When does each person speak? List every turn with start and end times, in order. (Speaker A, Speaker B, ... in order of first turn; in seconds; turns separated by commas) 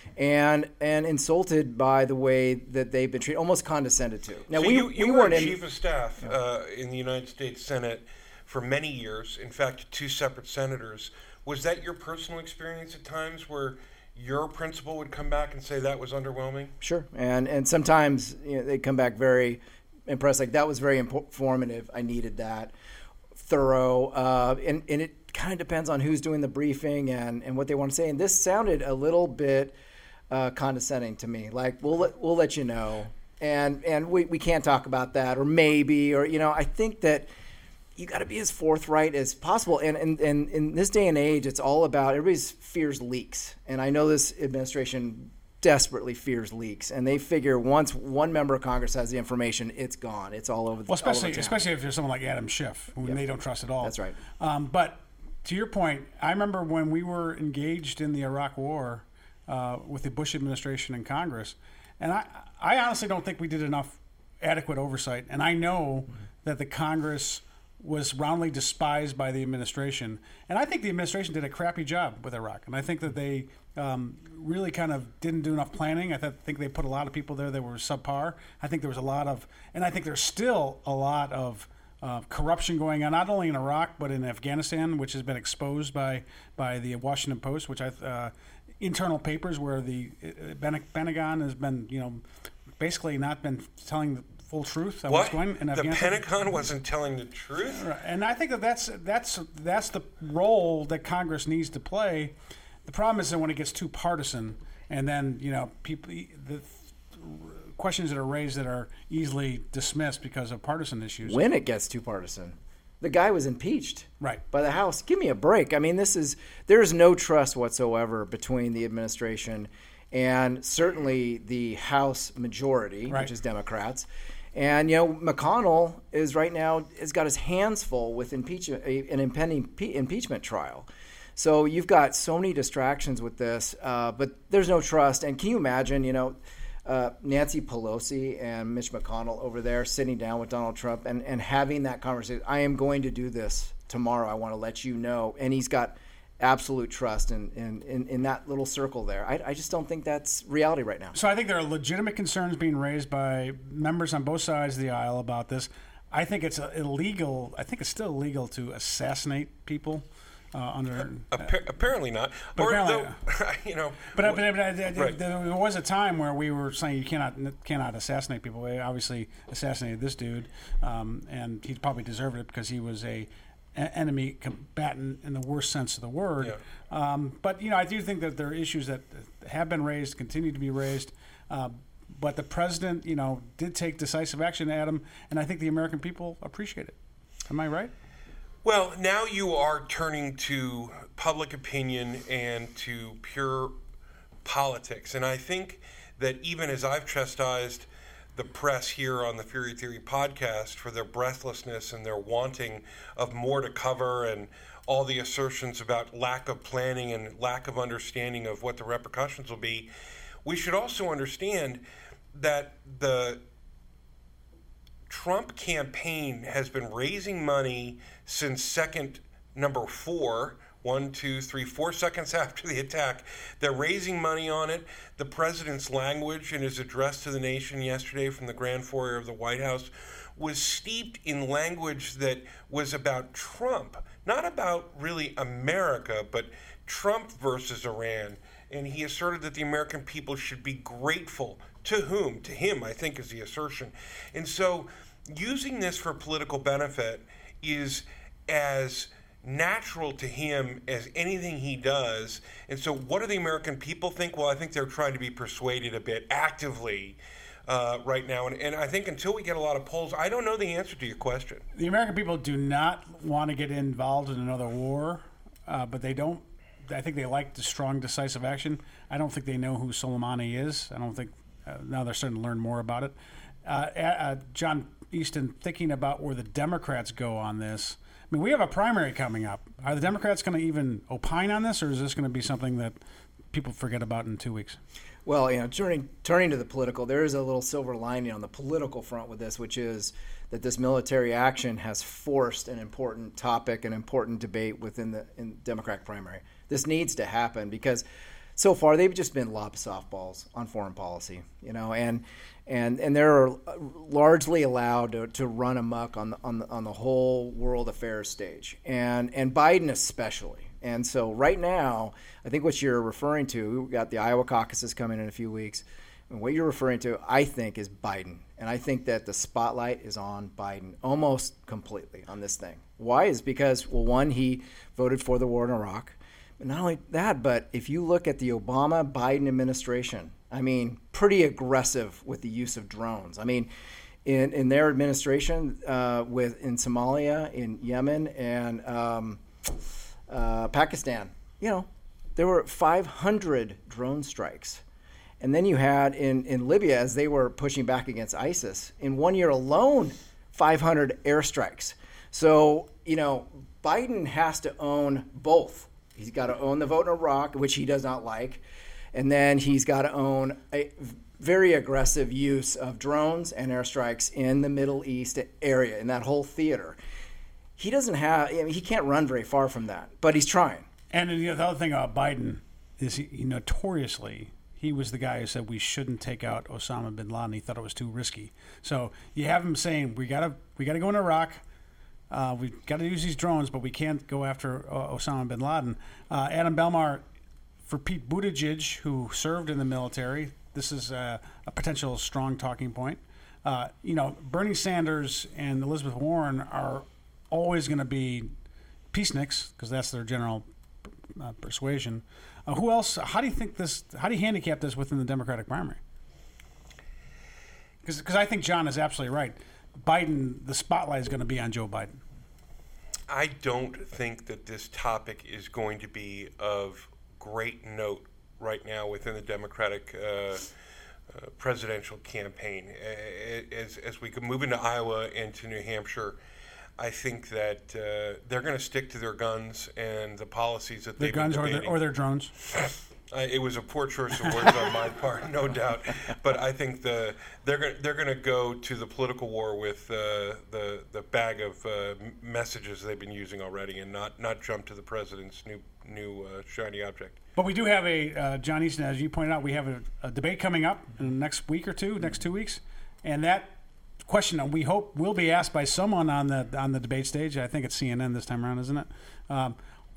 Speaker A: 0.2-5.6, Speaker B: 4.5-16.7, Speaker A: 16.8-22.7, Speaker A: 23.4-29.8, Speaker A: 30.3-37.3, Speaker A: 38.0-51.6, Speaker C: 50.9-92.2, Speaker A: 53.8-54.2, Speaker C: 92.8-96.3, Speaker B: 95.1-97.9, Speaker C: 97.7-102.3, Speaker C: 102.8-111.4, Speaker A: 111.2-151.2, Speaker C: 151.1-161.4, Speaker B: 161.3-165.2, Speaker C: 162.6-163.2, Speaker C: 164.2-187.9, Speaker B: 188.6-193.8, Speaker B: 194.4-209.9, Speaker B: 210.4-213.4, Speaker B: 215.1-261.6, Speaker C: 261.8-283.0, Speaker C: 283.5-284.8, Speaker A: 285.2-298.1, Speaker A: 298.6-333.7, Speaker A: 334.2-339.4, Speaker A: 340.3-344.8, Speaker A: 345.4-367.0, Speaker A: 367.8-370.9, Speaker C: 371.1-381.6, Speaker C: 382.3-387.2, Speaker C: 387.8-398.5, Speaker C: 399.1-400.6, Speaker C: 401.4-406.0, Speaker C: 408.0-412.2, Speaker B: 413.3-420.7, Speaker B: 421.3-426.4, Speaker B: 427.0-432.0, Speaker C: 431.2-432.5, Speaker B: 432.8-447.4, Speaker C: 447.6-459.8